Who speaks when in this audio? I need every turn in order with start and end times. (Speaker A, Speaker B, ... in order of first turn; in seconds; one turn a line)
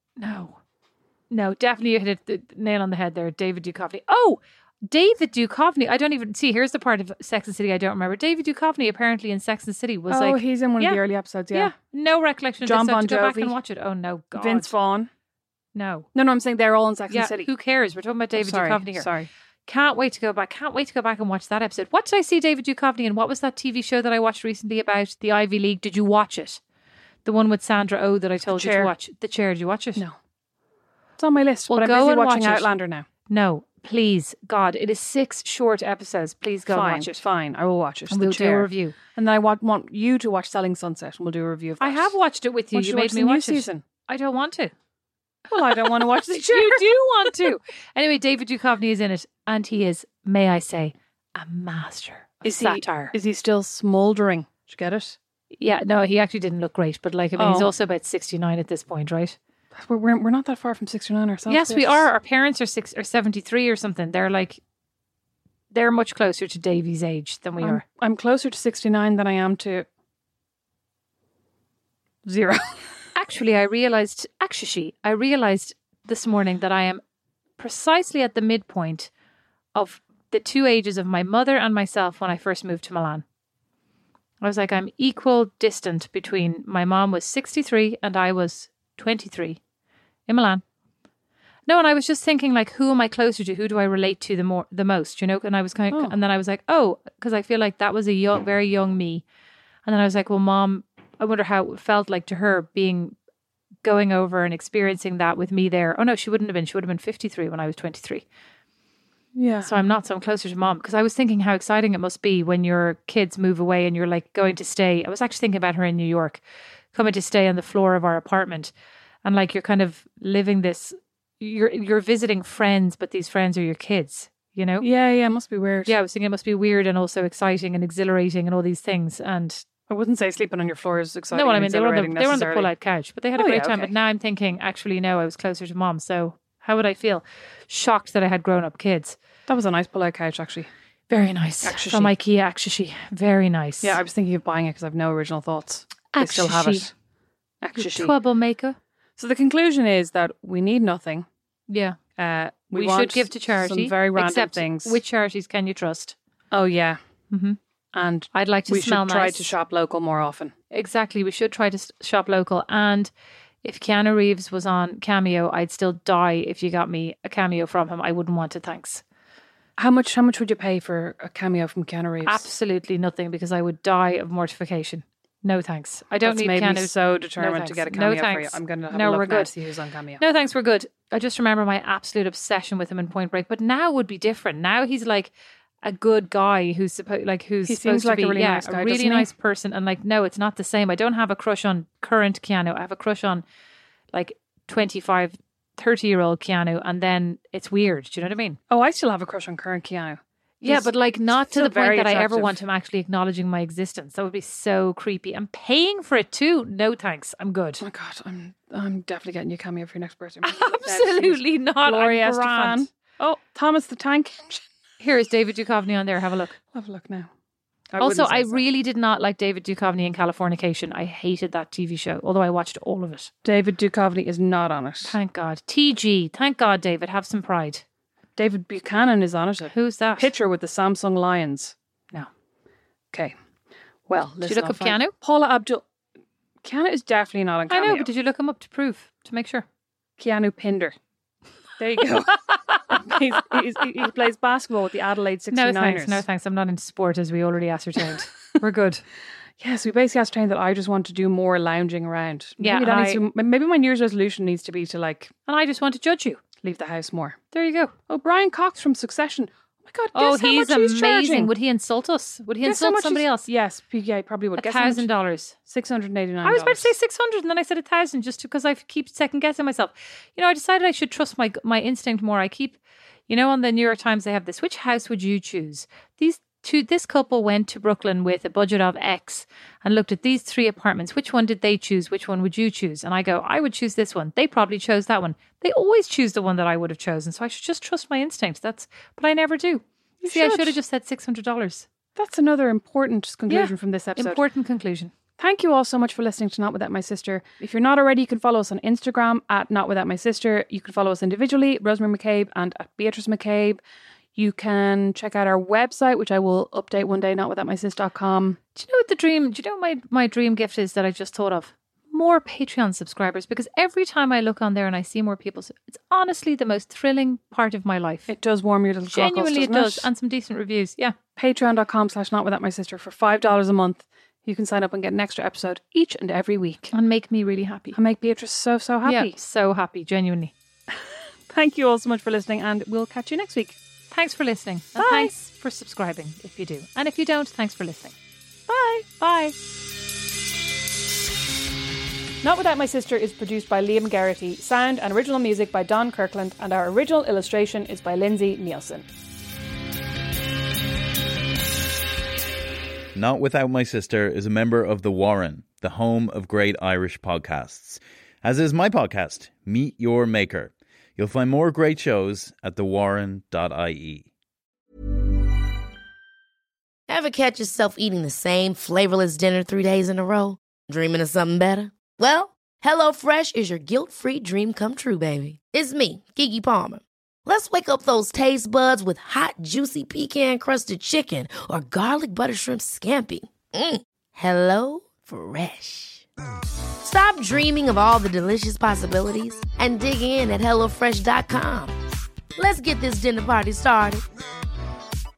Speaker A: 0.2-0.6
Speaker A: 1.3-14.7
Speaker B: 10.1-11.7
Speaker B: 12.6-13.6
Speaker B: 14.3-15.1
Speaker A: 15.8-16.1
Speaker B: 16.1-17.5
Speaker A: 17.1-19.1
Speaker B: 18.4-19.3
Speaker A: 19.7-26.6
Speaker A: 27.2-30.0
Speaker B: 28.5-28.9
Speaker B: 31.2-33.1
Speaker A: 31.7-32.7
Speaker A: 33.3-37.2
Speaker B: 36.7-42.1
Speaker A: 38.1-39.0
Speaker A: 41.8-44.7
Speaker B: 42.7-43.8
Speaker B: 45.5-47.6
Speaker A: 45.6-53.1
Speaker B: 52.5-55.2
Speaker A: 55.6-59.4
Speaker B: 57.4-57.7
Speaker B: 59.7-62.1
Speaker A: 61.5-64.6
Speaker A: 65.7-67.8
Speaker B: 67.6-69.9
Speaker B: 72.2-72.8
Speaker A: 73.2-77.0
Speaker A: 77.6-79.1
Speaker A: 79.8-83.2
Speaker A: 84.4-89.6
Speaker A: 90.3-90.6
Speaker A: 91.7-99.2
Speaker A: 99.9-103.2
Speaker A: 103.8-108.2
Speaker B: 109.3-109.7
Speaker A: 109.6-116.4
Speaker A: 116.9-118.7
Speaker A: 119.2-124.9
Speaker B: 124.8-125.9
Speaker A: 125.9-129.6
Speaker B: 129.9-132.7
Speaker A: 131.3-139.2
Speaker B: 133.3-133.9
Speaker B: 139.5-140.7
Speaker A: 141.1-144.0
Speaker B: 141.6-142.1
Speaker B: 143.8-146.9
Speaker A: 146.1-146.9
Speaker B: 147.6-148.1
Speaker A: 147.8-148.8
Speaker B: 149.2-151.3
Speaker A: 151.7-152.0
Speaker B: 152.2-155.0
Speaker A: 152.7-156.2
Speaker B: 156.5-157.0
Speaker A: 157.3-157.6
Speaker B: 157.9-160.5
Speaker A: 158.3-159.5
Speaker A: 160.7-163.1
Speaker A: 163.6-169.0
Speaker B: 169.8-172.4
Speaker A: 172.2-179.5
Speaker B: 176.2-180.2
Speaker A: 180.2-185.3
Speaker A: 185.8-193.4
Speaker B: 187.7-189.3
Speaker A: 194.1-198.6
Speaker B: 198.7-200.9
Speaker A: 200.6-207.8
Speaker B: 201.4-202.6
Speaker B: 207.8-214.6
Speaker A: 210.4-212.9
Speaker A: 215.0-216.6
Speaker B: 216.7-217.3
Speaker B: 217.9-218.6
Speaker A: 218.0-223.3
Speaker B: 223.4-225.2
Speaker A: 225.1-227.8
Speaker B: 228.4-231.8
Speaker A: 229.7-230.3
Speaker B: 234.1-235.8
Speaker A: 234.4-235.1
Speaker B: 236.6-238.1
Speaker A: 237.7-239.7
Speaker B: 240.2-240.9
Speaker B: 241.8-246.2
Speaker A: 245.5-249.0
Speaker B: 249.6-255.3
Speaker A: 252.6-253.2
Speaker A: 255.5-256.4
Speaker B: 256.6-257.4
Speaker A: 257.5-257.9
Speaker B: 258.1-261.5
Speaker A: 260.1-263.5
Speaker B: 262.6-265.1
Speaker A: 264.6-265.6
Speaker B: 265.7-266.9
Speaker A: 266.4-291.9
Speaker B: 290.2-290.8
Speaker B: 292.2-294.4
Speaker A: 293.5-295.1
Speaker B: 295.4-303.8
Speaker B: 304.4-308.6
Speaker A: 308.8-318.3
Speaker B: 318.3-320.1
Speaker A: 319.1-321.1
Speaker B: 321.4-326.9
Speaker A: 326.9-328.0
Speaker B: 327.9-329.4
Speaker A: 329.1-330.5
Speaker B: 331.5-333.8
Speaker A: 334.1-338.1
Speaker B: 335.0-335.3
Speaker B: 338.7-339.6
Speaker B: 342.4-349.1
Speaker C: 353.1-364.3
Speaker D: 367.1-386.3
Speaker D: 387.0-391.9
Speaker D: 392.6-394.2